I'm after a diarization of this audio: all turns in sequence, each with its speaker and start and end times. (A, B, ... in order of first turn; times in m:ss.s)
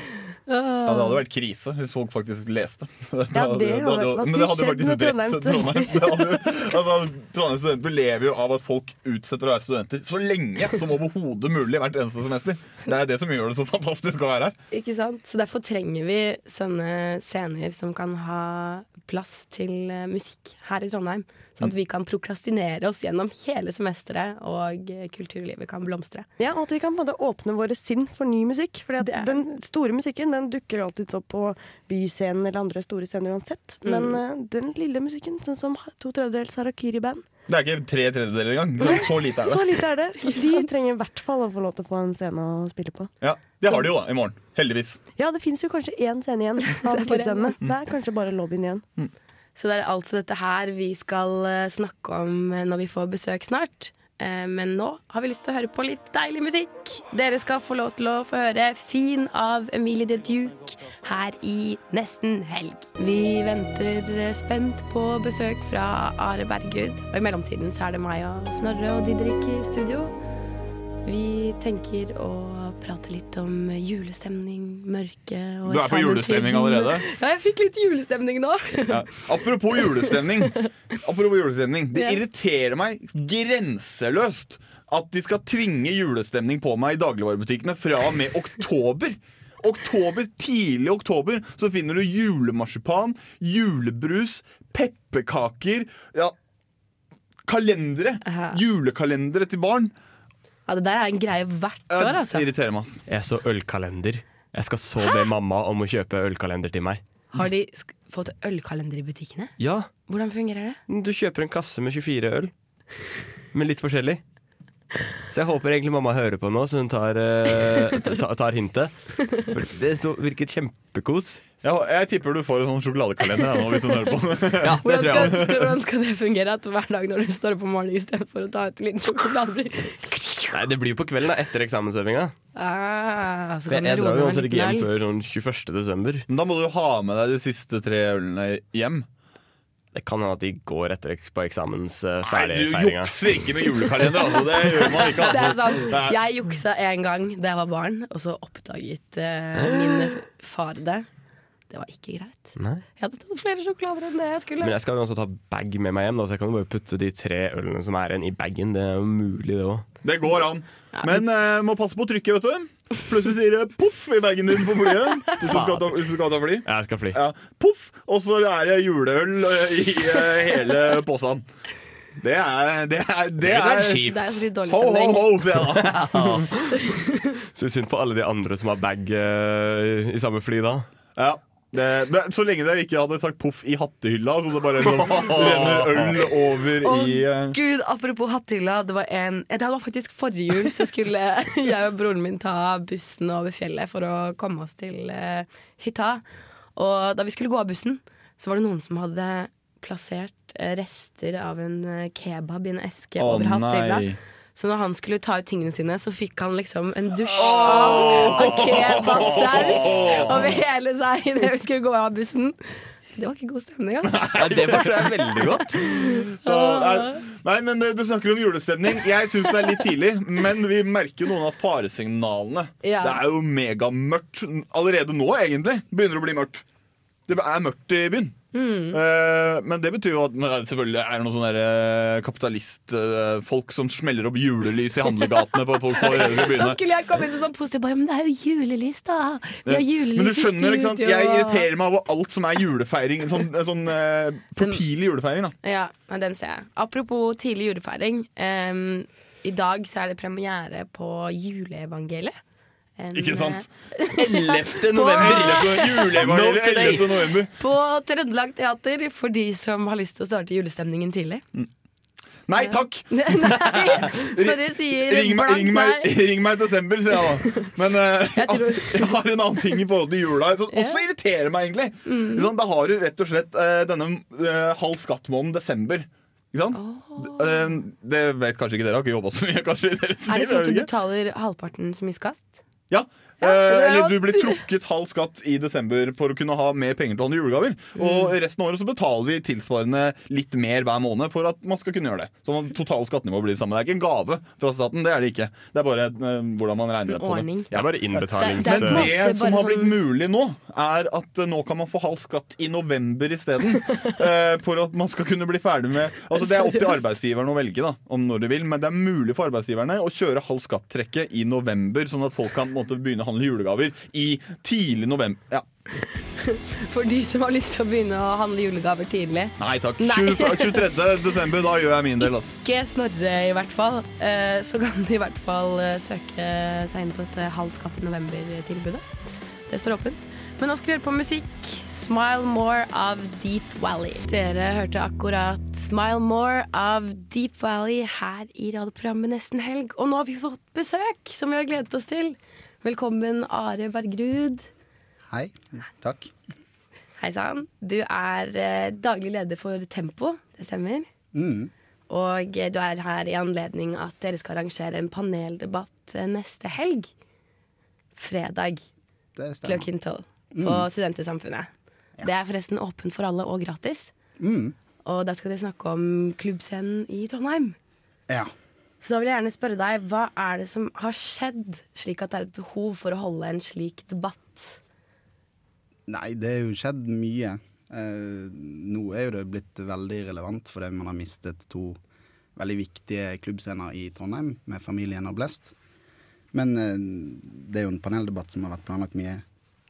0:00.5-0:01.2 A
0:00.8-0:14.6 B
0:03.3-0:06.4 C
0:14.7-0:26.3 A
0:26.4-0:37.2 C
0:29.0-0:29.4 A
0:33.8-0:34.2 A
0:37.5-0:39.7 B
0:39.4-0:43.1 C
0:40.3-0:40.6 A
0:43.2-0:45.0 B
0:45.2-0:48.8 C
0:46.8-0:47.6 A
0:49.6-1:10.1 A
1:11.0-1:19.2 A
1:15.6-1:17.0 B
1:18.9-1:36.3 B
1:37.5-1:39.9 B
1:38.2-1:38.6 A
1:40.7-1:42.4 A
1:41.9-1:43.0 B
1:43.1-1:47.0 D
1:47.3-1:49.6 A
1:49.6-1:49.9 D
1:50.1-1:50.8 A
1:50.9-1:52.5 D
1:53.5-1:54.2 D
1:55.3-2:01.4 D
2:01.6-2:05.7 B
2:04.6-2:05.4 D
2:04.8-2:10.6 A
2:10.5-2:12.3 D
2:12.6-2:14.8 A
2:13.7-2:16.2 D
2:16.3-2:19.0 B
2:19.9-2:23.2 D
2:22.2-2:26.2 B
2:25.0-2:31.1 A
2:31.7-2:34.7 A
2:32.6-2:32.8 D
2:34.6-2:39.9 D
2:40.0-2:51.4 B
2:40.9-2:41.2 A
2:45.4-2:47.2 D
2:52.2-2:56.5 B
2:53.4-2:54.4 D
2:54.1-2:55.4 A
2:55.8-2:56.5 D
2:57.5-3:00.9 D
3:01.2-3:07.6 B
3:04.8-3:06.2 D
3:06.8-3:16.2 A
3:16.8-3:34.4 A
3:23.2-3:24.2 B
3:27.3-3:30.6 B
3:27.4-3:28.5 D
3:29.2-3:30.5 D
3:34.1-3:35.1 B
3:34.4-3:35.8 D
3:35.9-3:37.2 A
3:36.0-3:46.6 B
3:42.8-3:43.2 A
3:47.3-3:48.3 B
3:48.5-3:49.0 A
3:48.9-3:56.8 B
3:56.0-4:01.7 A
3:59.6-4:05.5 B
4:04.6-4:04.8 A
4:05.6-4:12.4 A
4:13.0-4:16.2 A
4:13.1-4:17.5 B
4:15.2-4:15.6 D
4:16.1-4:17.2 D
4:17.6-4:21.4 A
4:22.4-4:40.9 B
4:22.6-4:26.2 A
4:27.3-4:27.7 A
4:28.4-4:29.2 A
4:30.7-4:31.0 A
4:32.0-4:32.5 A
4:36.7-4:37.8 A
4:40.3-4:42.5 A
4:42.9-5:15.6 B
4:43.4-4:44.6 A
4:47.9-4:48.3 A
4:57.1-4:57.7 A
4:57.7-4:59.1 D
4:58.4-5:00.0 A
5:06.4-5:07.0 A
5:16.4-5:21.2 A
5:19.6-5:22.6 B
5:22.2-5:29.1 A
5:29.7-5:44.7 A
5:45.3-5:46.3 E
5:47.2-5:51.1 A
5:51.3-5:51.7 E
5:52.1-5:57.1 A
5:58.2-5:58.9 A
5:59.4-5:59.9 E
5:59.6-6:01.7 A
6:00.5-6:00.9 E
6:02.2-6:04.1 A
6:04.4-6:04.7 E
6:05.0-6:07.8 A
6:09.0-6:14.8 A
6:16.1-6:22.0 E
6:22.6-6:25.7 E
6:26.5-6:29.4 E